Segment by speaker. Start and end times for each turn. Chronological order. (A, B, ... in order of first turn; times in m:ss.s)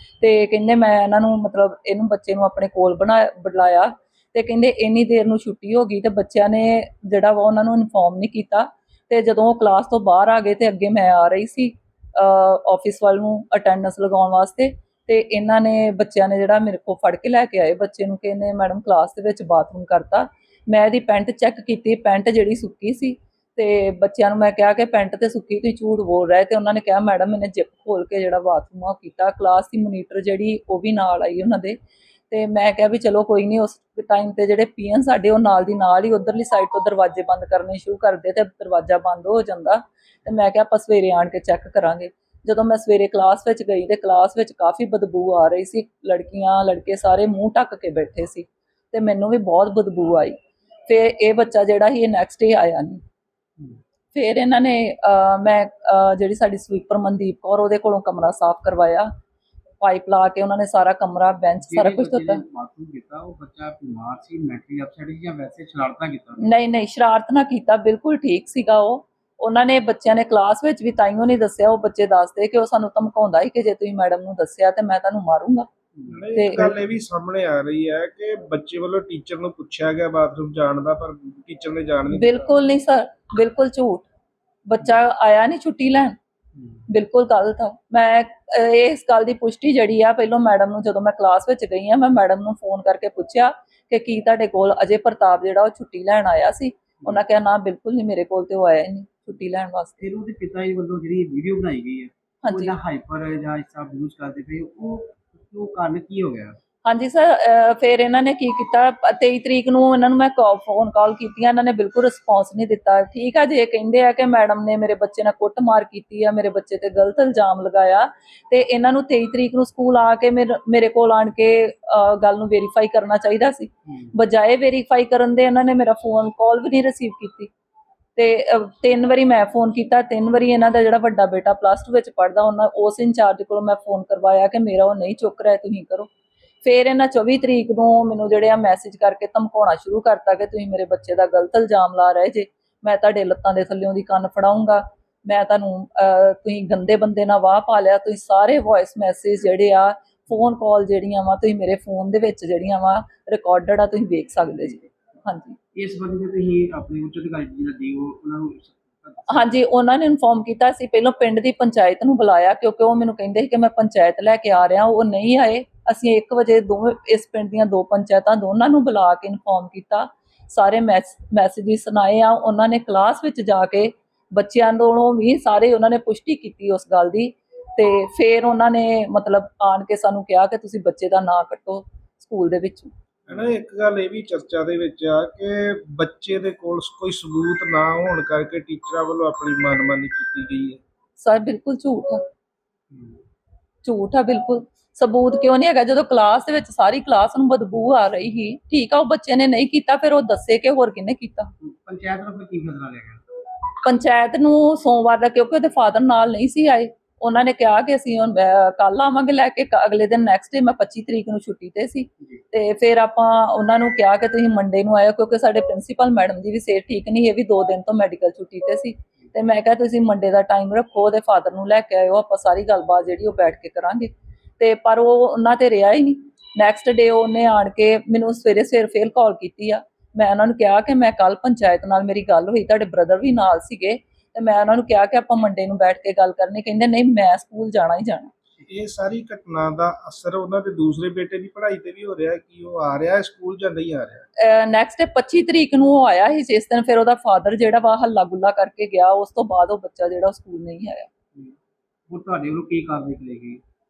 0:00.2-0:31.8 A
0:32.3-0:50.4 A
0:50.9-0:53.0 A
0:54.1-0:59.1 A
0:59.8-1:02.4 A
1:01.6-1:06.4 B
1:06.4-1:15.7 A
1:16.0-1:16.2 B
1:16.1-1:22.3 C
1:16.3-1:16.7 A
1:22.1-1:24.1 A
1:24.7-1:26.2 A
1:26.9-1:40.0 A
1:40.0-1:46.6 B
1:42.4-1:42.8 A
1:46.8-2:07.5 A
2:03.9-2:04.1 B
2:08.2-2:16.1 A
2:16.6-2:35.6 A
2:35.7-2:39.6 B
2:39.3-3:02.9 A
3:03.3-3:03.6 B
3:03.3-3:10.8 C
3:11.2-3:12.2 A
3:12.9-3:13.2 B
3:13.8-3:21.5 A
3:21.6-3:23.2 B
3:23.8-3:58.3 A
3:58.7-4:04.2 C
4:04.4-4:11.1 A
4:12.1-4:13.6 B